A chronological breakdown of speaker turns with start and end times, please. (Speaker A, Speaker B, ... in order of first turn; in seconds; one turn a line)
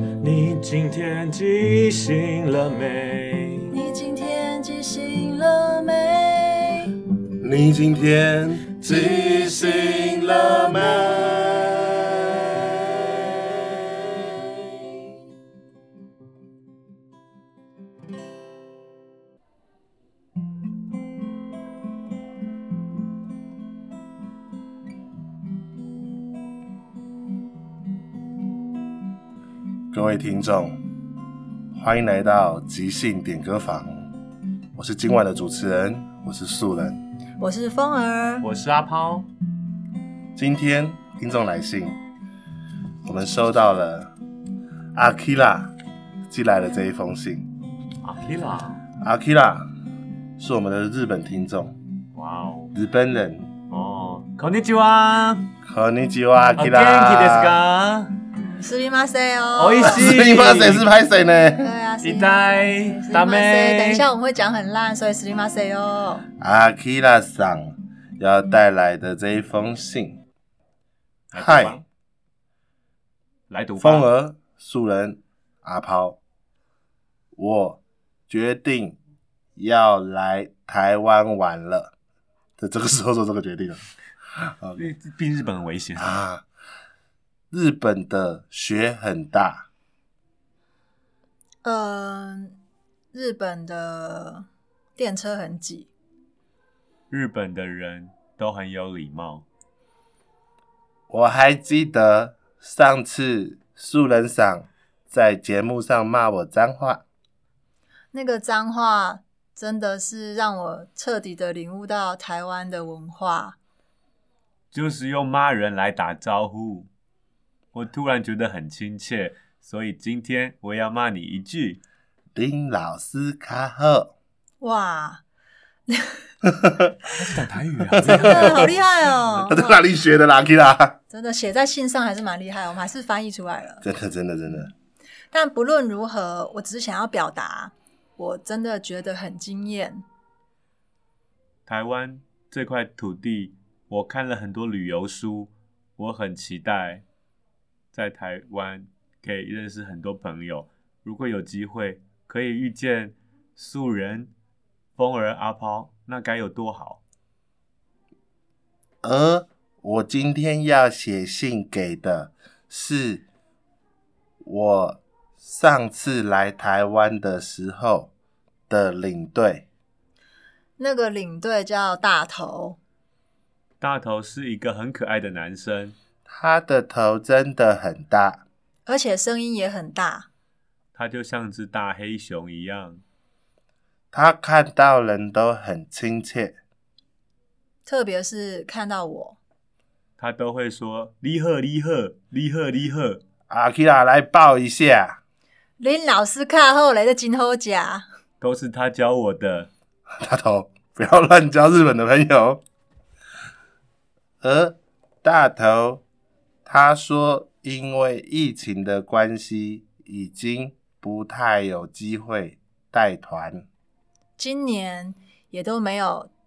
Speaker A: 0.2-3.7
Speaker B: 3.7-6.9
Speaker C: 7.4-8.8
Speaker A: 8.8-9.9
Speaker B: 8.9-11.0
Speaker C: 29.9-30.8
Speaker C: 31.7-34.1
Speaker C: 34.8-37.0
Speaker B: 37.4-38.5
Speaker A: 38.4-39.3
Speaker C: 40.4-42.0
Speaker C: 43.0-44.1
Speaker C: 44.9-45.7
Speaker C: 46.3-47.5
Speaker A: 48.0-48.8
Speaker C: 49.0-49.7
Speaker C: 50.4-51.7
Speaker A: 52.1-52.7
Speaker C: 52.7-53.5
Speaker A: 53.7-55.5
Speaker C: 55.6-57.6
Speaker A: 56.5-58.1
Speaker B: 58.4-60.0
Speaker A: 59.5-60.9
Speaker C: 59.8-61.7
Speaker B: 61.6-66.2
Speaker A: 62.0-64.0
Speaker C: 66.4-70.2
Speaker C: 71.3-71.8
Speaker A: 71.3-71.8
Speaker A: 73.5-74.1
Speaker C: 73.8-76.2
Speaker C: 77.3-79.0
Speaker C: 79.5-81.9
Speaker C: 82.6-83.8
Speaker C: 84.4-84.8
Speaker A: 84.8-86.2
Speaker C: 86.0-86.4
Speaker C: 87.5-89.7
Speaker B: 91.6-92.6
Speaker B: 93.1-94.5
Speaker B: 95.0-95.9
Speaker A: 97.1-99.4
Speaker C: 101.1-107.0
Speaker B: 108.1-113.5
Speaker A: 114.7-116.9
Speaker A: 117.7-121.8
Speaker C: 122.3-124.1
Speaker B: 124.6-125.2
Speaker B: 125.9-126.2
Speaker C: 126.6-126.9
Speaker A: 127.1-128.8
Speaker C: 128.0-128.8
Speaker B: 128.0-129.8
Speaker C: 129.3-131.0
Speaker B: 131.1-133.8
Speaker C: 133.8-134.7
Speaker B: 135.3-140.0
Speaker A: 141.7-147.0
Speaker A: 147.9-154.3
Speaker A: 154.9-157.0
Speaker C: 159.0-163.2
Speaker C: 164.4-168.1
Speaker C: 168.7-169.6
Speaker B: 170.8-172.8
Speaker A: 173.8-175.9
Speaker C: 176.3-178.4
Speaker B: 178.8-180.3
Speaker A: 180.9-183.0
Speaker C: 184.1-186.6
Speaker B: 187.8-189.4
Speaker A: 190.2-193.2
Speaker C: 193.5-195.2
Speaker B: 195.8-198.0
Speaker A: 198.4-199.7
Speaker C: 200.2-202.6
Speaker C: 204.4-206.0
Speaker C: 206.7-213.7
Speaker B: 214.4-216.3